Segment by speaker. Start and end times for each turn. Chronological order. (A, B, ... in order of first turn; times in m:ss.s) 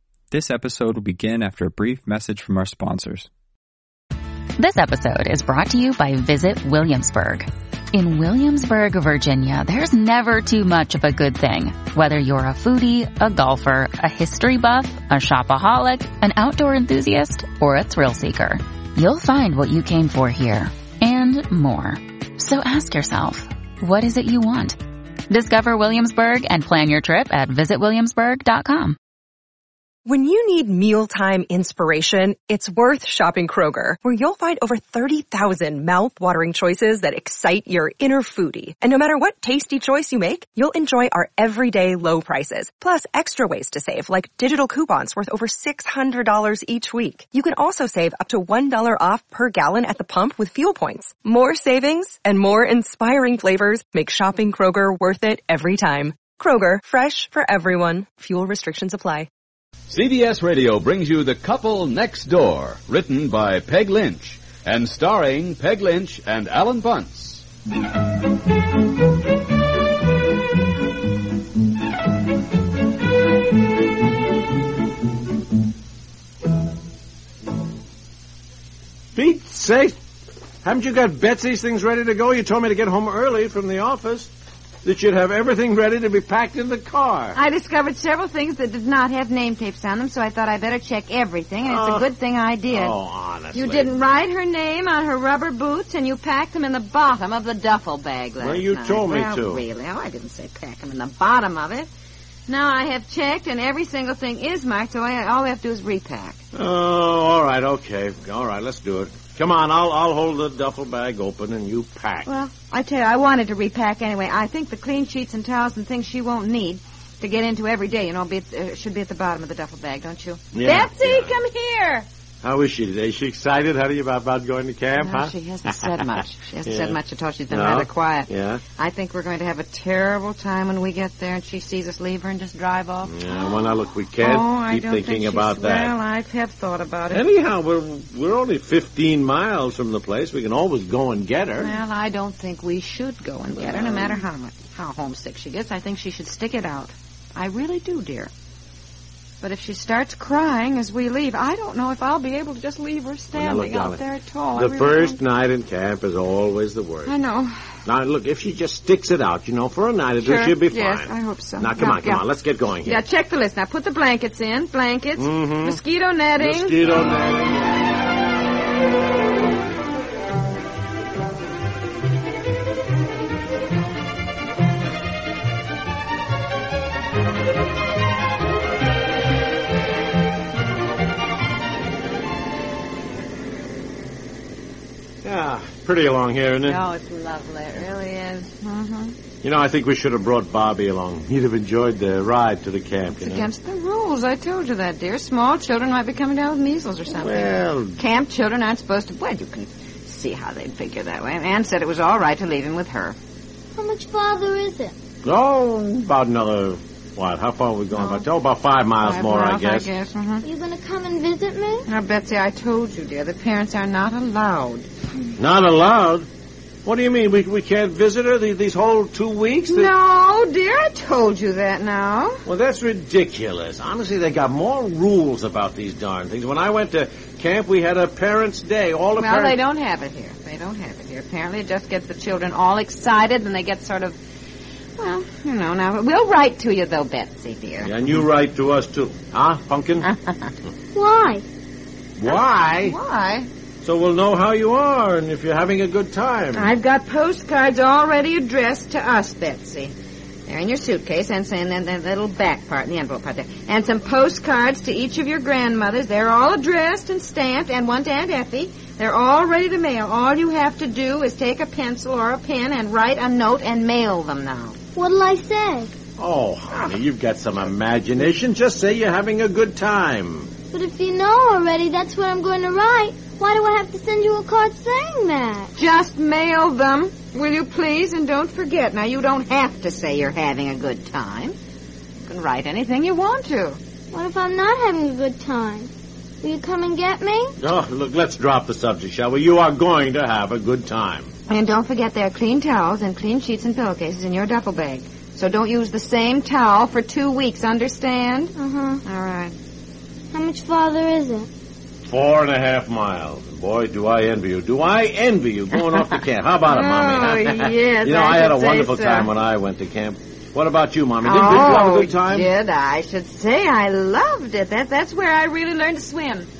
0:00.3-0:03.3 A
0:04.6-0:24.8 B
0:25.3-0:29.0 B
0:30.0-0:59.3 C
0:59.9-1:07.4 D
1:19.1-1:20.0 E
1:20.6-1:24.3 E
1:24.8-1:27.4 E
1:27.3-1:32.9 F
1:31.6-1:32.1 E
1:32.7-1:34.0 E
1:33.5-1:41.9 F
1:38.4-1:39.6 E
1:42.5-1:46.4 F
1:46.5-1:52.3 E
1:52.2-2:02.0 F
2:00.5-2:01.3 E
2:02.4-2:05.3 E
2:05.0-2:13.4 F
2:06.6-2:07.0 E
2:07.5-2:08.6 E
2:13.0-2:15.9 E
2:14.2-2:17.2 F
2:17.1-2:21.7 E
2:21.6-2:28.3 F
2:23.6-2:24.2 E
2:29.4-2:35.2 F
2:33.3-2:34.0 E
2:34.6-2:37.1 E
2:37.0-2:37.6 F
2:37.8-2:43.0 E
2:40.2-2:42.2 F
2:42.8-2:46.8 F
2:45.2-2:45.8 E
2:46.4-2:47.7 E
3:05.2-3:06.8 E
3:06.7-3:09.1 F
3:09.4-3:13.4 E
3:13.2-3:23.2 F
3:17.1-3:18.0 E
3:23.8-3:24.9 G
3:25.2-3:29.9 E
3:29.0-3:30.4 F
3:30.4-3:31.8 G
3:31.9-3:34.9 F
3:35.4-3:36.3 E
3:36.8-3:39.9 E
3:39.7-3:42.4 F
3:42.4-3:49.6 E
3:49.2-3:54.2 F
3:55.0-3:57.9 F
3:57.8-4:00.1 E
4:00.9-4:01.4 G
4:02.2-4:03.0 E
4:02.3-4:03.5 F
4:03.8-4:06.7 E
4:06.5-4:09.9 F
4:10.5-4:24.8 F
4:25.0-4:25.9 G
4:26.2-4:30.5 E
4:30.7-4:35.7 G
4:35.8-4:41.5 F
4:42.3-4:43.8 F
4:44.1-4:45.9 G
4:46.4-4:47.5 G
4:47.6-4:51.3 E
4:51.5-4:59.5 F
4:58.6-4:59.0 G
5:00.3-5:01.5 G
5:02.0-5:12.5 E
5:06.7-5:09.3 F
5:11.2-5:16.5 F